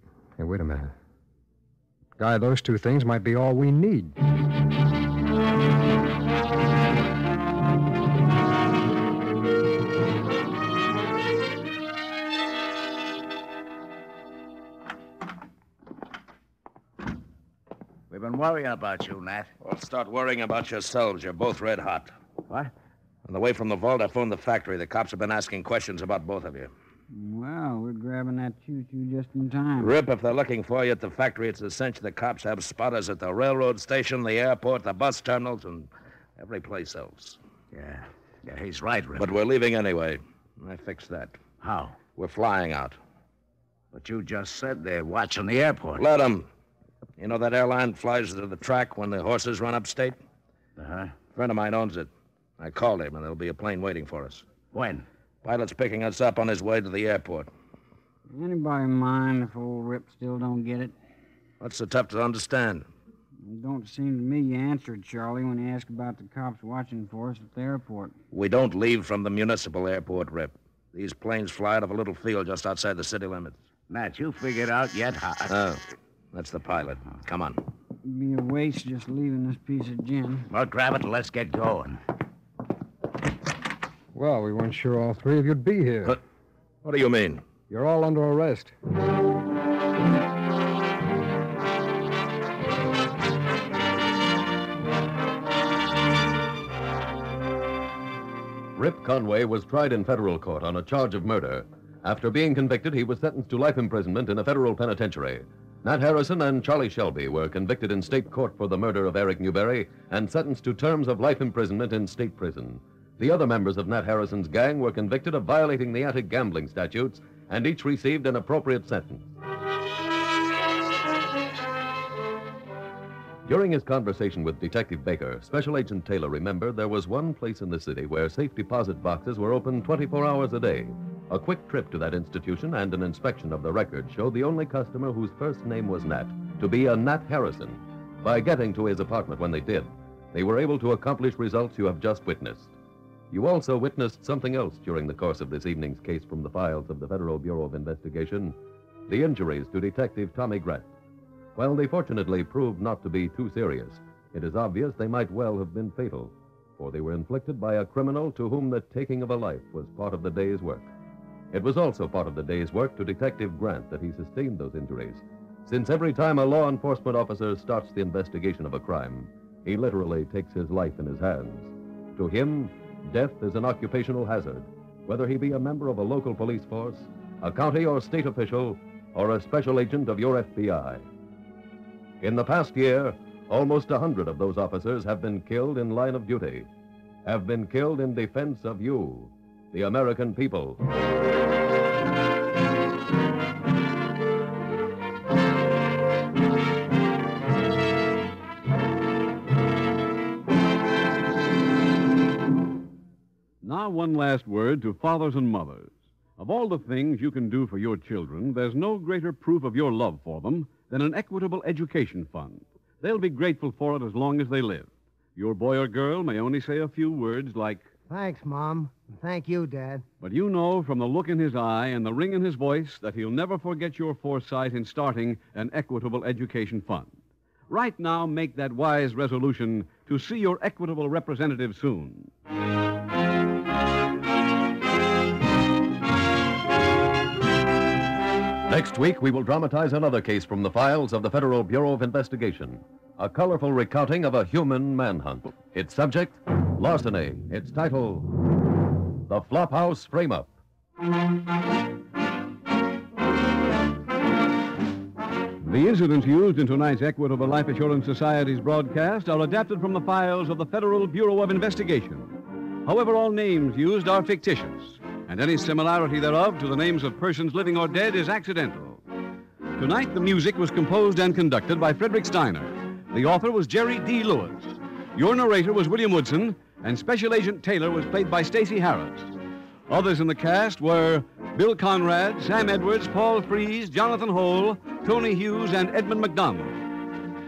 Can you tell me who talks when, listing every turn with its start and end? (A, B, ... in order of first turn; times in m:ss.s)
0:00.4-0:00.9 A
0:02.2-0:04.2 A
0:18.1-0:19.5 B
0:19.6-0:22.1 C
0:23.3-0:26.7 C
0:27.1-0:29.9 D
0:29.8-0:37.4 C
0:37.7-0:39.3 B
0:39.2-0:41.4 C
0:41.6-0:42.0 B
0:42.2-0:43.0 C
0:43.9-0:46.0 B
0:46.0-0:46.5 C
0:47.2-0:50.2 C
0:50.8-0:51.2 B
0:51.3-0:54.5 C
0:54.7-0:55.0 B
0:55.4-0:57.5 C
0:58.3-1:01.0 D
1:01.6-1:02.9 C
1:03.4-1:08.2 D
1:08.3-1:13.6 C
1:13.9-1:15.5 B
1:15.5-1:15.8 C
1:16.3-1:17.6 C
1:18.0-1:20.5 D
1:20.5-1:22.0 B
1:24.2-1:26.2 A
1:26.8-1:27.4 C
1:27.7-1:28.7 A
1:38.8-1:59.4 E
2:03.5-2:22.7 E
2:23.3-2:28.6 E
2:29.1-2:30.9 E
2:31.6-2:40.9 E
2:41.5-3:01.0 E
3:02.2-3:06.7 E
3:07.2-3:10.8 E
3:23.6-3:37.9 F
3:38.1-3:40.0 G
3:40.2-3:52.3 F
3:58.7-4:08.3 E
4:09.3-4:10.5 E
4:15.6-4:29.0 F
4:29.8-4:39.3 F
4:39.9-4:47.0 F